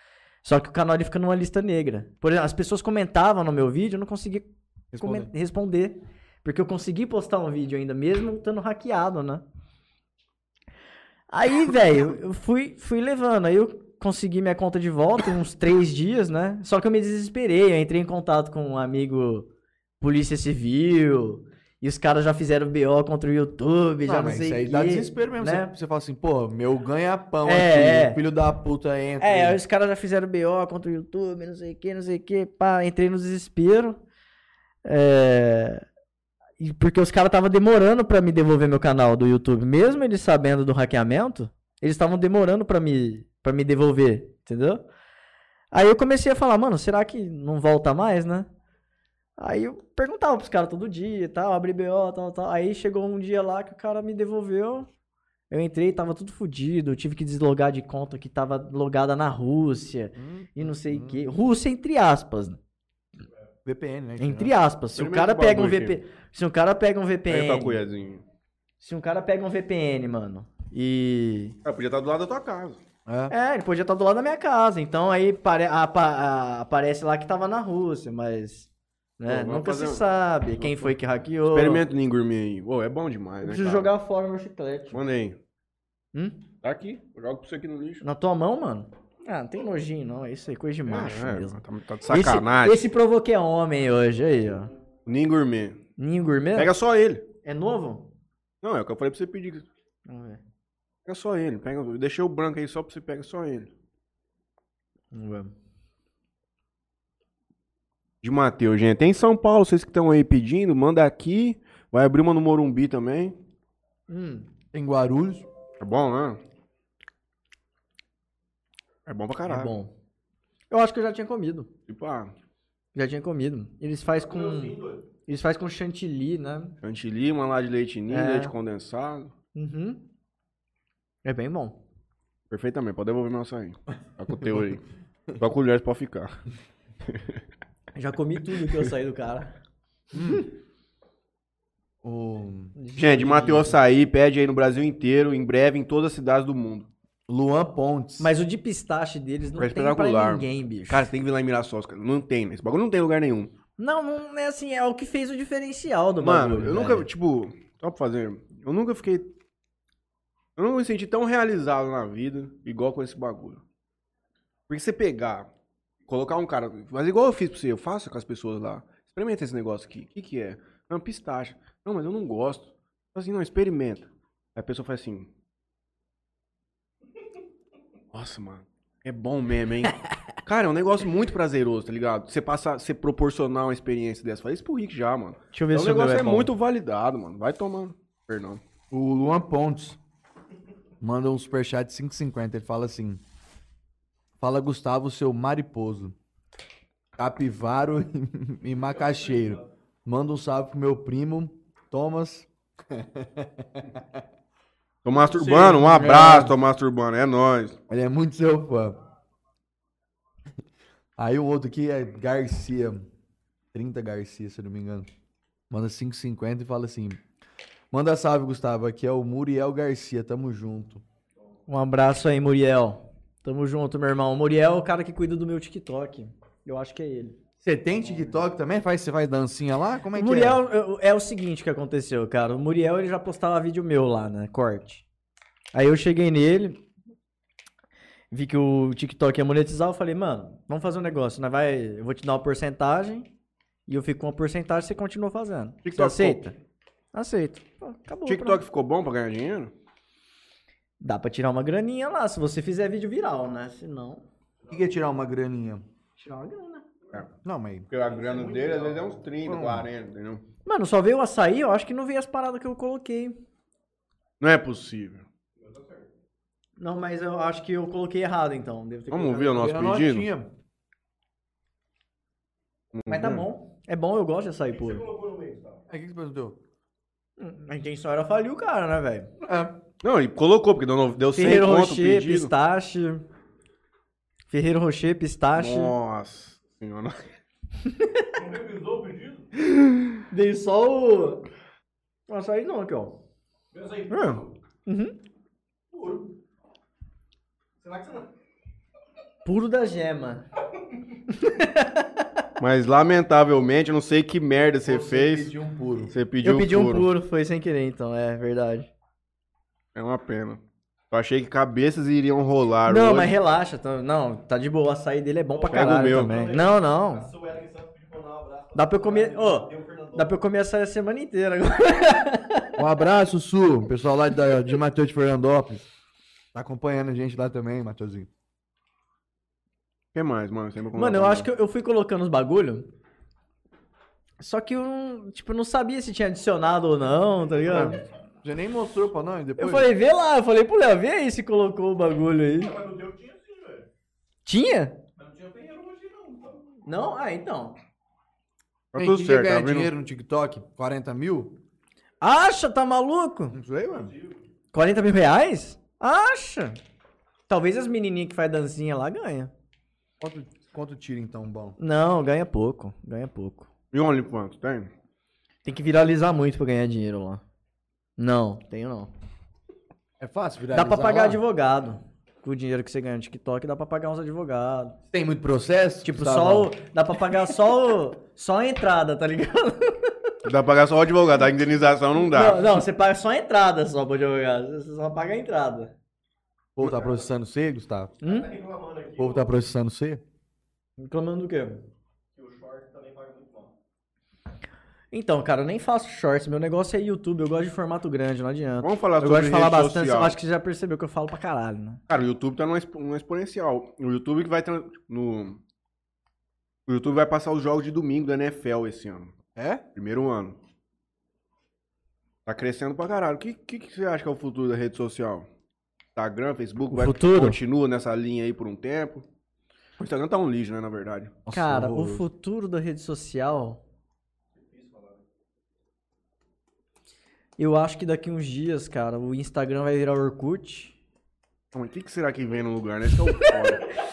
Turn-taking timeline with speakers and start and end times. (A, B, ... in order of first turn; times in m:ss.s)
0:00.4-0:09.4 A
0:04.9-0:05.3 B
0:11.3-0:19.5 A
0:20.0-0:25.7 A
0:24.0-0:29.6 B
0:27.4-0:28.2 A
0:29.2-0:34.0 A
0:34.8-0:35.8 A
0:36.6-0:44.8 A
0:45.7-0:48.5 A
0:49.4-0:54.9 A
0:55.5-1:02.6 A
1:00.2-1:01.2 B
1:03.6-1:04.5 B
1:04.2-1:07.8 A
1:05.0-1:06.0 C
1:07.3-1:08.2 C
1:08.8-1:11.6 A
1:11.6-1:12.8 C
1:13.0-1:13.3 B
1:13.3-1:21.8 A
1:19.2-1:20.0 C
1:20.6-1:20.9 C
1:21.5-1:23.9 C
1:23.4-1:25.0 A
1:24.9-1:25.4 C
1:26.1-1:26.4 A
1:26.6-1:28.0 C
1:28.0-1:34.7 A
1:30.9-1:32.8 C
1:35.0-1:35.8 C
1:36.0-1:36.7 A
1:36.5-1:37.2 C
1:37.4-1:38.1 A
1:38.6-1:39.6 C
1:40.0-1:40.4 A
1:41.0-1:43.7 C
1:45.1-1:45.5 A
1:48.2-1:53.4 C
1:54.1-1:54.5 A
1:54.7-1:55.4 B
1:55.8-1:56.4 C
1:59.0-1:59.8 C
1:59.4-1:59.9 A
2:00.7-2:01.7 A
2:01.9-2:02.3 C
2:02.9-2:06.7 A
2:04.2-2:05.0 D
2:06.8-2:09.3 C
2:08.1-2:08.5 A
2:09.5-2:10.0 A
2:11.2-2:11.8 A
2:12.5-2:14.8 C
2:15.4-2:16.4 C
2:17.1-2:17.4 C
2:17.9-2:19.5 A
2:20.1-2:20.4 B
2:20.2-2:20.4 A
2:22.0-2:22.7 B
2:22.8-2:23.8 A
2:23.0-2:26.9 C
2:27.3-2:28.3 B
2:28.2-2:31.1 A
2:29.6-2:33.5 C
2:33.8-2:37.1 A
2:36.2-2:39.3 C
2:40.6-2:43.6 C
2:44.7-2:45.5 C
2:46.1-2:55.3 C
2:58.1-3:08.6 C
3:05.5-3:06.5 A
3:08.9-3:10.0 B
3:11.0-3:13.2 B
3:14.4-3:16.1 B
3:17.2-3:24.2 B
3:19.0-3:19.6 D
3:25.0-3:27.8 C
3:25.3-3:26.5 B
3:27.9-3:29.0 B
3:31.2-3:33.0 B
3:33.7-3:35.1 B
3:35.7-3:37.2 B
3:37.9-3:41.0 B
3:41.7-3:47.4 A
3:47.6-3:50.6 B
3:50.1-3:55.0 A
3:55.7-3:56.8 A
3:58.3-4:03.3 A
4:03.9-4:06.5 A
4:05.8-4:06.5 C
4:07.1-4:08.6 A
4:08.3-4:09.7 C
4:11.0-4:14.2 A
4:14.6-4:14.9 D
4:14.7-4:15.8 B
4:16.2-4:16.8 A
4:17.4-4:17.9 B
4:17.9-4:20.4 C
4:18.0-4:19.2 D
4:19.4-4:19.9 B
4:20.6-4:23.4 A
4:24.4-4:25.2 C
4:25.6-4:26.1 D
4:26.8-4:29.7 A
4:29.1-4:30.3 C
4:29.6-4:30.5 B
4:32.9-4:33.5 C
4:33.1-4:35.0 A
4:34.6-4:35.8 D
4:35.9-4:36.6 B
4:37.4-4:39.3 A
4:39.4-4:39.7 B
4:40.0-4:42.5 C
4:41.3-4:43.2 A
4:44.5-4:45.9 A
4:45.5-4:47.2 C
4:47.9-4:48.2 A
4:48.3-4:49.5 D
4:50.1-4:51.5 A
4:52.3-4:53.1 A
4:53.7-4:54.5 D
4:54.1-4:54.4 C
4:54.8-4:55.1 A
4:55.9-4:56.3 D
4:57.8-4:58.3 D
4:59.4-5:00.4 A
5:01.3-5:02.2 A
5:02.6-5:05.5 C
5:04.8-5:06.1 B
5:06.1-5:07.1 C
5:06.4-5:08.9 A
5:09.9-5:10.6 C
5:11.1-5:13.3 C
5:12.8-5:17.3 A
5:15.5-5:20.4 D
5:15.7-5:16.3 C
5:18.7-5:22.8 A
5:22.8-5:25.9 B
5:26.5-5:28.3 B
5:30.1-5:31.5 C
5:30.9-5:32.9 A
5:34.4-5:38.0 A
5:37.7-5:39.9 B
5:39.6-5:42.7 A
5:42.5-5:43.9 D
5:44.4-5:45.0 A
5:45.2-5:46.6 D
5:46.8-5:47.8 A
5:48.9-5:49.9 C
5:48.9-5:51.6 B
5:52.2-5:53.5 A
5:53.5-5:54.1 B
5:53.9-5:54.4 D
5:54.7-5:56.8 A
5:57.5-5:59.5 A
6:00.2-6:01.8 B
6:01.8-6:03.7 A
6:03.9-6:04.9 C
6:05.6-6:07.4 A
6:08.2-6:09.1 A
6:10.2-6:11.4 B
6:10.7-6:15.0 A
6:15.1-6:16.7 B
6:16.0-6:20.1 A
6:20.4-6:22.6 C
6:22.2-6:25.9 A
6:26.8-6:28.1 B
6:26.8-6:27.2 D
6:28.2-6:28.5 A
6:28.2-6:29.5 D
6:29.2-6:30.2 B
6:31.0-6:31.8 A
6:32.4-6:33.7 D
6:35.1-6:42.0 A
6:38.8-6:40.4 C
6:42.1-6:45.6 C
6:46.9-6:50.6 C
6:52.4-6:55.5 C
6:56.1-6:59.2 C
6:56.9-6:57.6 A
7:00.0-7:01.4 C
7:01.4-7:02.2 B
7:01.5-7:03.8 A
7:04.5-7:05.2 D
7:07.6-7:11.0 A
7:11.7-7:13.9 C